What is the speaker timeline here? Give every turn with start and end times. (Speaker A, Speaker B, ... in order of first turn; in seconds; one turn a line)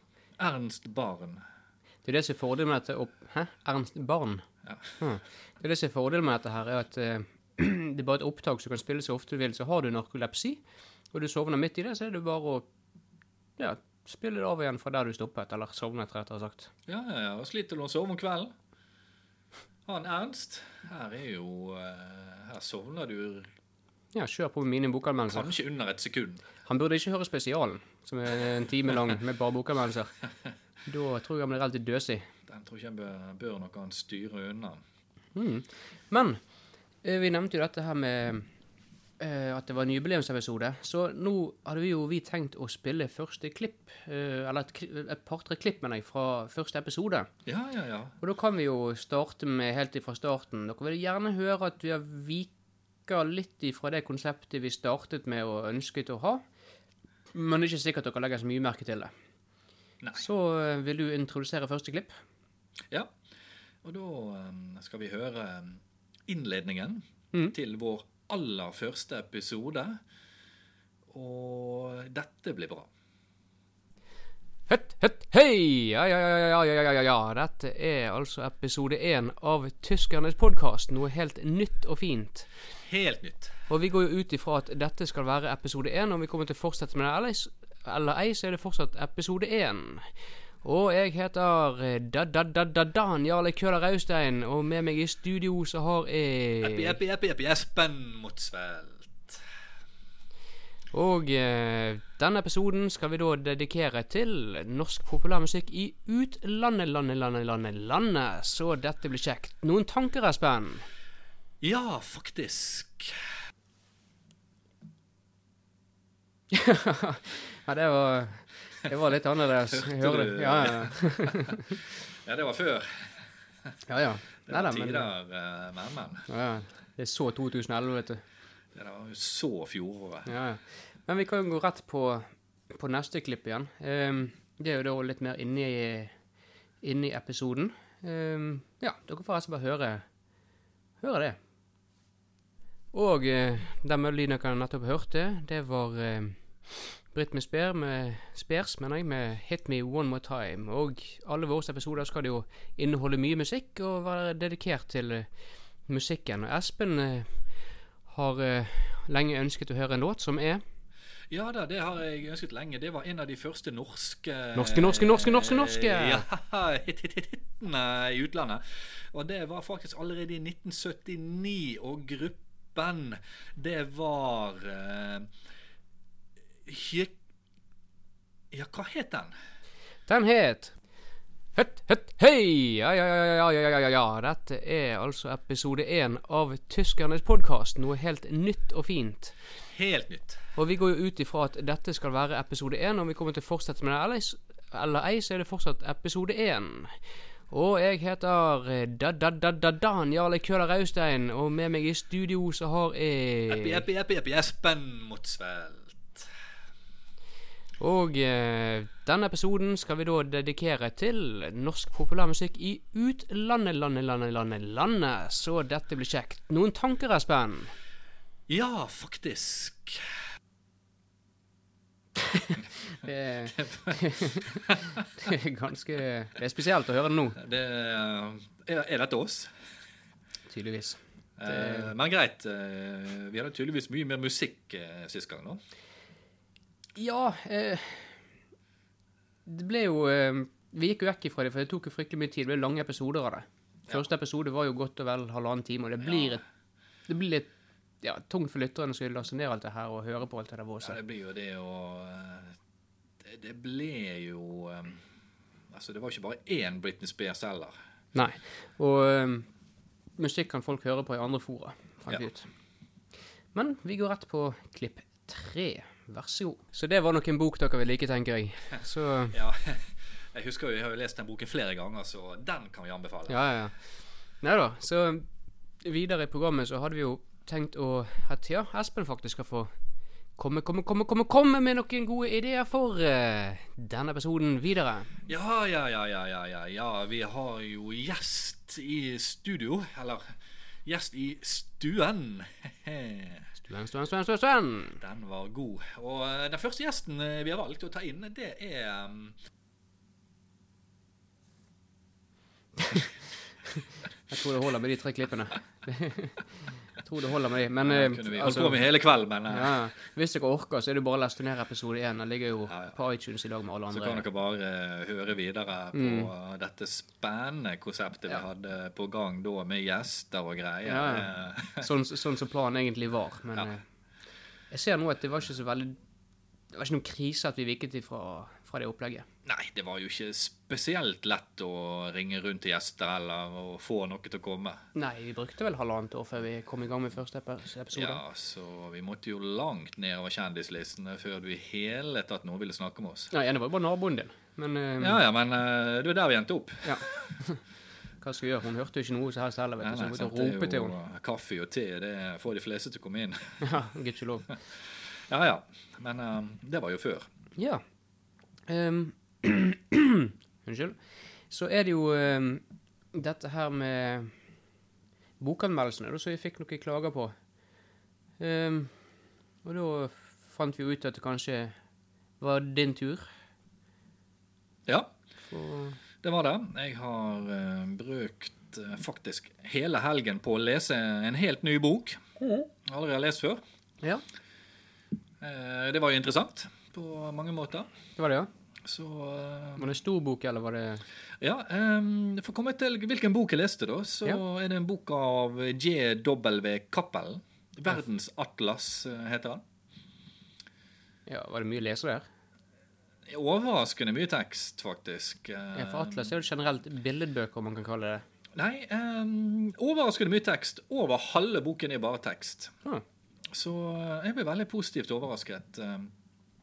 Speaker A: 0.4-1.4
Speaker B: 2.0-4.5
Speaker A: 4.6-5.0
Speaker B: 5.0-10.6
Speaker B: 11.1-12.7
Speaker B: 13.6-16.7
Speaker A: 16.9-18.5
Speaker A: 19.9-23.5
Speaker B: 24.1-25.5
Speaker A: 25.3-26.5
Speaker B: 26.6-30.1
Speaker B: 30.9-32.3
Speaker A: 32.5-34.8
Speaker B: 35.4-36.4
Speaker B: 37.0-38.5
Speaker B: 39.2-47.3
Speaker A: 47.5-48.1
Speaker B: 48.2-52.5
Speaker B: 53.0-56.4
Speaker B: 57.3-59.1
Speaker B: 60.1-62.1
Speaker A: 63.8-70.0
Speaker A: 71.1-72.9
Speaker B: 74.7-82.5
Speaker A: 82.8-83.5
Speaker B: 83.7-90.0
Speaker B: 90.6-97.0
Speaker A: 96.6-99.4
Speaker B: 100.9-110.8
Speaker A: 111.6-113.2
Speaker B: 116.5-121.8
Speaker A: 119.6-123.2
Speaker B: 123.9-125.1
Speaker A: 124.5-126.2
Speaker B: 126.3-128.2
Speaker A: 128.8-130.3
Speaker B: 130.2-136.1
Speaker B: 136.8-140.0
Speaker B: 141.0-141.4
Speaker B: 142.9-155.3
Speaker B: 155.9-157.3
Speaker B: 158.1-160.6
Speaker A: 161.3-175.3
Speaker B: 164.5-166.3
Speaker A: 176.6-177.1
Speaker A: 178.5-179.3
Speaker B: 180.1-180.7
Speaker B: 181.6-189.4
Speaker A: 189.7-190.4
Speaker B: 190.5-196.9
Speaker B: 197.5-203.8
Speaker A: 203.5-206.3
Speaker B: 207.8-217.7
Speaker A: 218.5-220.1
Speaker B: 222.2-227.4
Speaker A: 223.5-225.1
Speaker A: 227.4-229.5
Speaker B: 230.5-231.9
Speaker A: 231.4-235.6
Speaker B: 237.0-238.1
Speaker B: 239.5-246.4
Speaker A: 246.0-246.4
Speaker B: 247.1-247.5
Speaker B: 248.0-251.0
Speaker A: 250.8-252.6
Speaker A: 253.2-255.0
Speaker A: 255.7-257.7
Speaker B: 258.1-259.5
Speaker B: 260.2-262.5
Speaker B: 263.5-269.4
Speaker A: 269.3-273.4
Speaker B: 273.3-273.8
Speaker B: 274.4-275.2
Speaker B: 275.8-279.7
Speaker B: 280.4-285.2
Speaker A: 285.3-290.3
Speaker A: 290.9-293.5
Speaker B: 293.6-295.0
Speaker A: 295.0-299.4
Speaker B: 302.8-303.1
Speaker B: 303.6-308.8
Speaker A: 307.8-309.8
Speaker B: 309.5-314.2
Speaker A: 312.7-313.0
Speaker A: 313.9-321.9
Speaker B: 315.9-316.3
Speaker B: 320.9-321.3
Speaker B: 321.8-323.8
Speaker B: 324.7-326.0
Speaker B: 326.7-329.3
Speaker A: 329.4-334.8
Speaker B: 334.9-338.2
Speaker A: 337.9-343.3
Speaker B: 343.3-345.2
Speaker A: 345.0-347.3
Speaker B: 346.9-347.6
Speaker B: 348.2-350.9
Speaker A: 349.8-353.6
Speaker B: 353.6-354.5
Speaker A: 355.1-357.3
Speaker B: 357.6-357.8
Speaker B: 358.7-361.0
Speaker B: 361.5-362.6
Speaker B: 363.1-364.3
Speaker B: 365.4-367.3
Speaker B: 368.4-368.9
Speaker B: 369.6-371.7
Speaker B: 372.4-373.2
Speaker A: 374.9-375.1
Speaker B: 375.5-376.0
Speaker A: 376.2-382.2
Speaker B: 382.4-382.7
Speaker A: 382.8-383.6
Speaker A: 385.4-387.9
Speaker B: 388.2-388.5
Speaker A: 388.8-389.9
Speaker B: 389.8-391.0
Speaker A: 391.4-399.6
Speaker B: 401.3-402.2
Speaker A: 403.3-406.3
Speaker B: 405.8-408.2
Speaker A: 408.6-412.8
Speaker A: 413.5-416.1